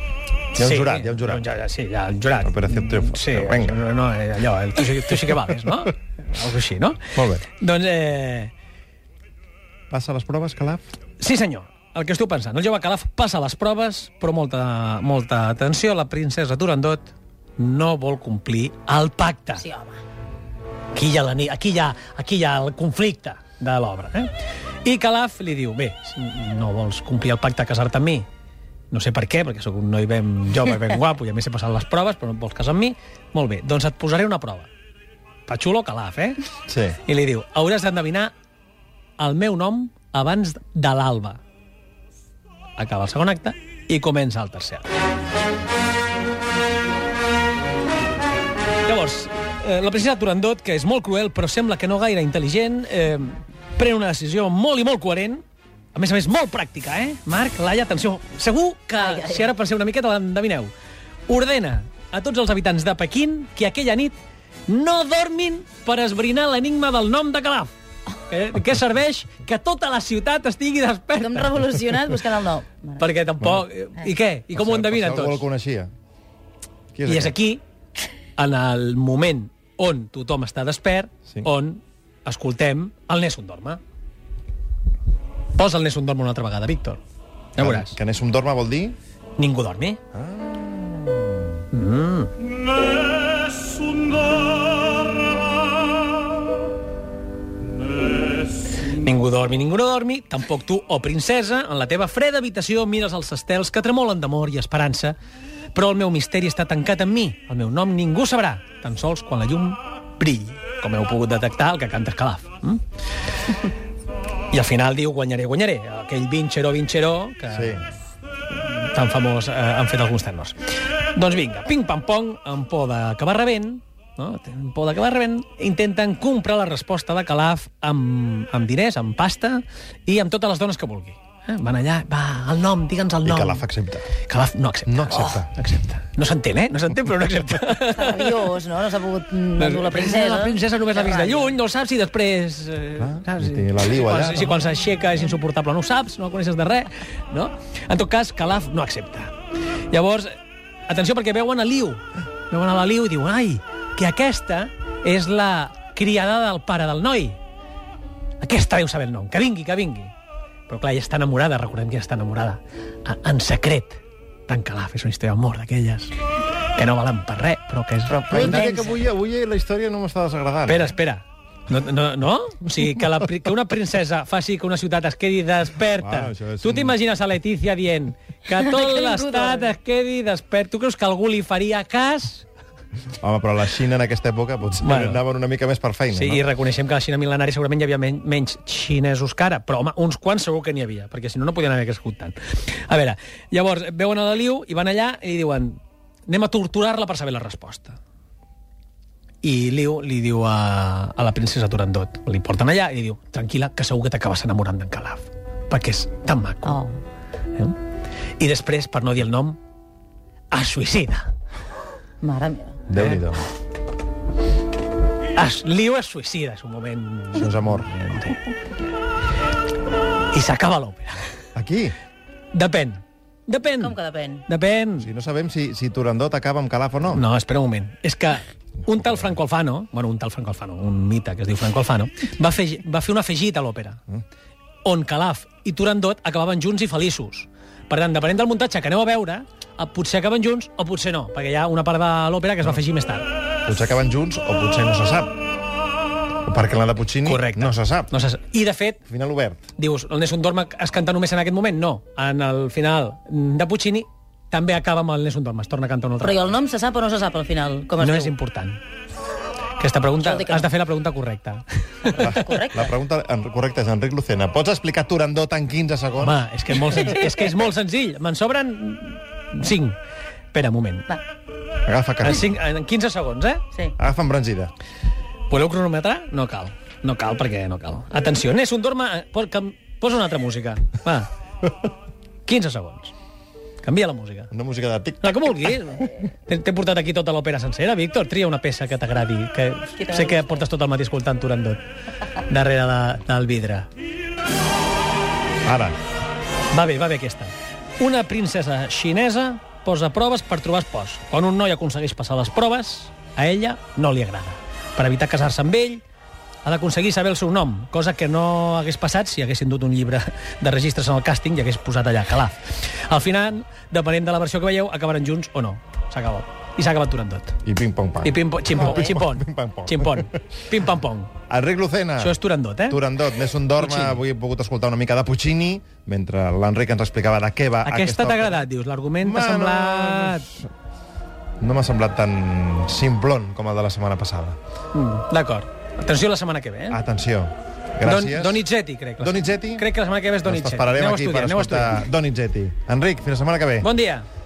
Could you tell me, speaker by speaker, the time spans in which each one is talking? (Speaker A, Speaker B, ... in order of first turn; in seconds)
Speaker A: 0.6-8.5, 11.2-19.7, 20.9-24.3, 24.8-28.3, 28.9-34.7, 35.5-36.5, 37.0-38.3, 39.2-41.4, 42.8-44.9, 48.9-55.4, 56.0-60.7, 61.3-64.2, 64.7-67.7, 68.2-72.1, 73.0-75.5, 77.1-77.6, 78.4-83.8, 85.5-87.0, 87.6-88.0, 89.4-90.0, 91.7-92.3, 98.7-105.2, 105.7-112.8, 114.5-117.9, 118.5-120.6, 121.1-138.5, 139.6-149.3, 149.9-150.3, 150.9-157.4, 158.4-160.1, 160.7-166.2, 166.7-168.7, 170.7-182.5, 184.8-185.2, 186.1-198.0, 199.4-206.8, 208.4-209.6, 210.5-211.3, 213.0-213.2, 215.3-218.5, 220.3-221.3, 222.5-224.0, 224.5-225.1, 227.1-234.0, 234.8-243.3, 247.2-249.0, 249.8-256.6, 258.0-258.8, 259.8-262.4, 266.2-270.0, 270.5-271.2, 272.2-273.7, 275.5-281.3, 282.5-283.1, 283.8-284.5, 285.2-291.8, 292.4-293.9, 296.7-306.0, 306.6-317.6, 318.2-321.3, 322.2-323.0, 323.8-324.2, 327.8-330.5, 334.9-337.0, 338.0-342.1, 343.8-344.3
Speaker B: 0.6-1.5, 2.4-3.9, 7.2-7.5, 9.9-10.8, 36.7-37.0, 73.4-73.7, 74.5-75.9, 76.9-77.4, 87.6-89.0, 90.1-91.4, 117.5-117.8, 133.2-134.1, 134.9-135.6, 143.0-144.7, 168.1-170.9, 176.0-177.0, 183.2-186.4, 212.9-213.4, 217.3-218.3, 221.6-221.9, 225.0-227.2, 228.8-229.3, 243.7-245.4, 246.4-248.1, 249.1-249.6, 262.2-266.4, 271.9-272.5, 274.0-274.7, 284.5-285.8, 295.6-296.0, 317.6-320.4, 321.5-328.7, 329.2-330.7, 331.6-334.6, 336.9-338.6, 339.2-339.9, 340.4-343.9
Speaker C: 19.6-20.0, 59.0-59.5, 71.2-73.0, 137.9-141.6, 168.3-168.9, 178.6-179.6, 206.7-206.9, 212.2-212.8, 223.8-224.4, 256.2-258.3, 260.2-260.7, 262.1-262.9, 290.1-290.5, 318.8-319.1